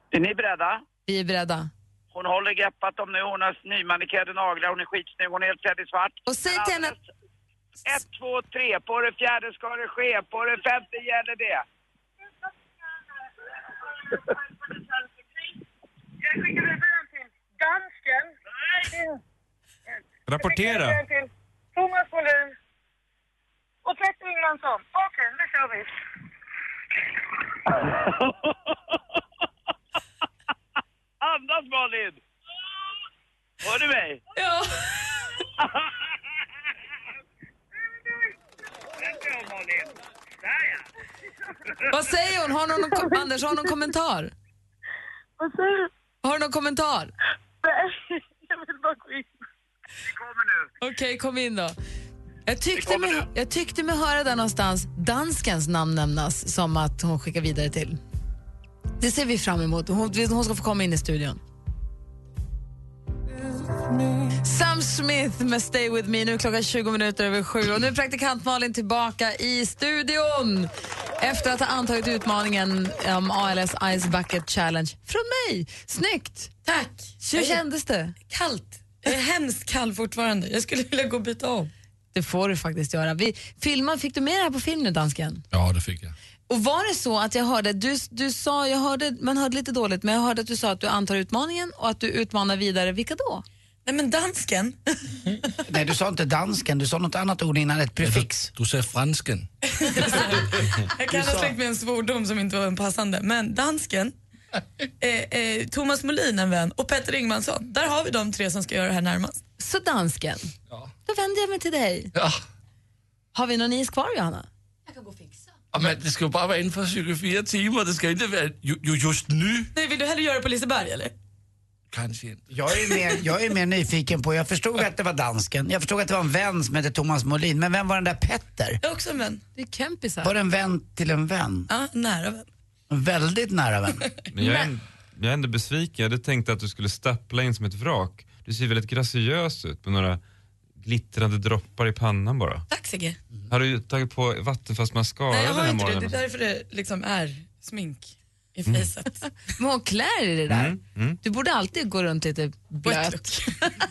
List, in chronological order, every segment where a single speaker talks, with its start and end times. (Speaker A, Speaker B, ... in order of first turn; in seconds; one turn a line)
Speaker A: 0.1-0.8
Speaker B: 1.1-1.7
Speaker A: 2.1-7.0
Speaker B: 6.2-6.9
Speaker A: 7.8-11.6
Speaker C: 16.2-19.2
Speaker D: 20.3-21.0
Speaker C: 20.4-22.5
Speaker C: 23.8-25.9
Speaker A: 31.2-32.2
Speaker A: 33.6-34.2
Speaker B: 41.9-44.3
Speaker C: 45.4-45.9
Speaker B: 46.2-47.1
Speaker C: 47.6-49.3
Speaker A: 50.1-50.7
Speaker B: 50.8-51.8
Speaker B: 52.5-58.0
Speaker B: 59.0-61.4
Speaker B: 64.4-76.5
Speaker E: 76.7-77.6
Speaker B: 77.2-78.1
Speaker E: 78.3-81.7
Speaker B: 82.1-85.4
Speaker F: 85.5-86.1
Speaker B: 86.5-93.4
Speaker E: 93.8-94.8
Speaker G: 95.7-98.5
Speaker F: 98.0-99.5
Speaker E: 99.7-104.1
Speaker E: 105.0-109.4
Speaker B: 109.6-110.5
Speaker B: 111.0-112.1
Speaker F: 112.1-112.4
Speaker B: 113.3-114.5
Speaker F: 115.7-119.7
Speaker E: 119.7-121.1
Speaker F: 121.9-122.5
Speaker G: 122.5-128.8
Speaker E: 128.8-129.4
Speaker B: 129.6-130.3
Speaker G: 130.2-131.7
Speaker E: 131.7-132.5
Speaker G: 132.9-134.1
Speaker D: 134.3-140.2
Speaker D: 140.8-142.6
Speaker E: 142.7-143.2
Speaker D: 143.5-146.2
Speaker E: 145.3-149.3
Speaker B: 149.6-153.6
Speaker D: 150.5-151.2
Speaker E: 152.8-153.5